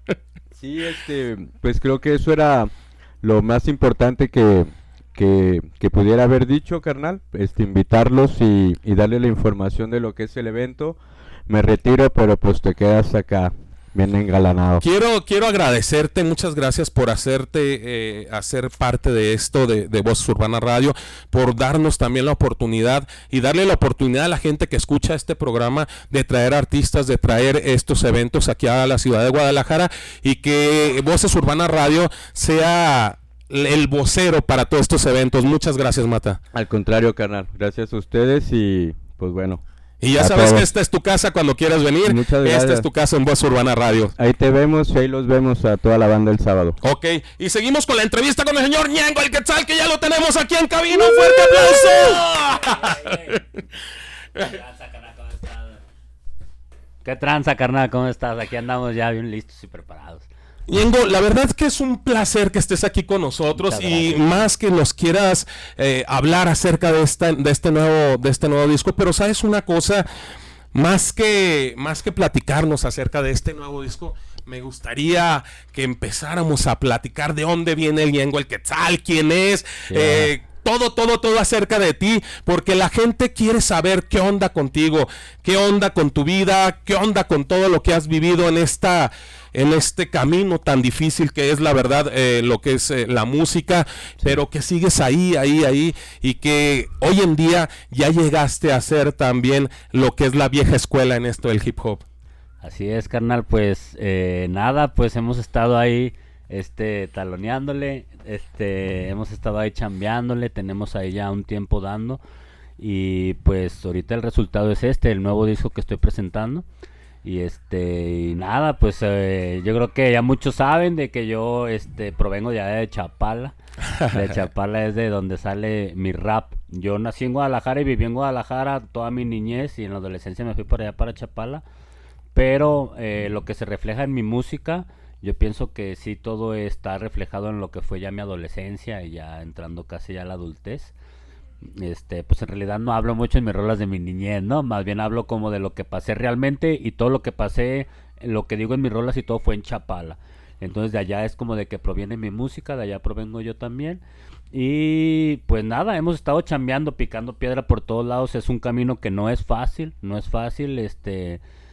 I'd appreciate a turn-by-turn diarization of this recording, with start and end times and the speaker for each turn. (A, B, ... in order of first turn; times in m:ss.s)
0:00.5-0:14.8 A
0:14.8-0:36.4 B
0:36.5-0:39.6 A
0:40.0-0:44.1 B
0:40.2-0:40.7 A
0:42.0-0:42.9 A
0:44.2-0:46.8 A
0:46.8-0:53.4 B
0:51.1-0:53.4 C
0:54.4-0:55.8 C
0:57.0-1:00.3 C
1:00.7-1:10.1 B
1:03.5-1:04.5 C
1:10.7-1:42.0 B
1:19.9-1:20.4 C
1:42.6-1:52.2 C
1:52.8-1:56.6 C
1:57.2-2:03.6 C
2:03.9-2:04.4 B
2:04.1-2:11.6 C
2:12.4-2:20.9 C
2:21.6-2:41.4 C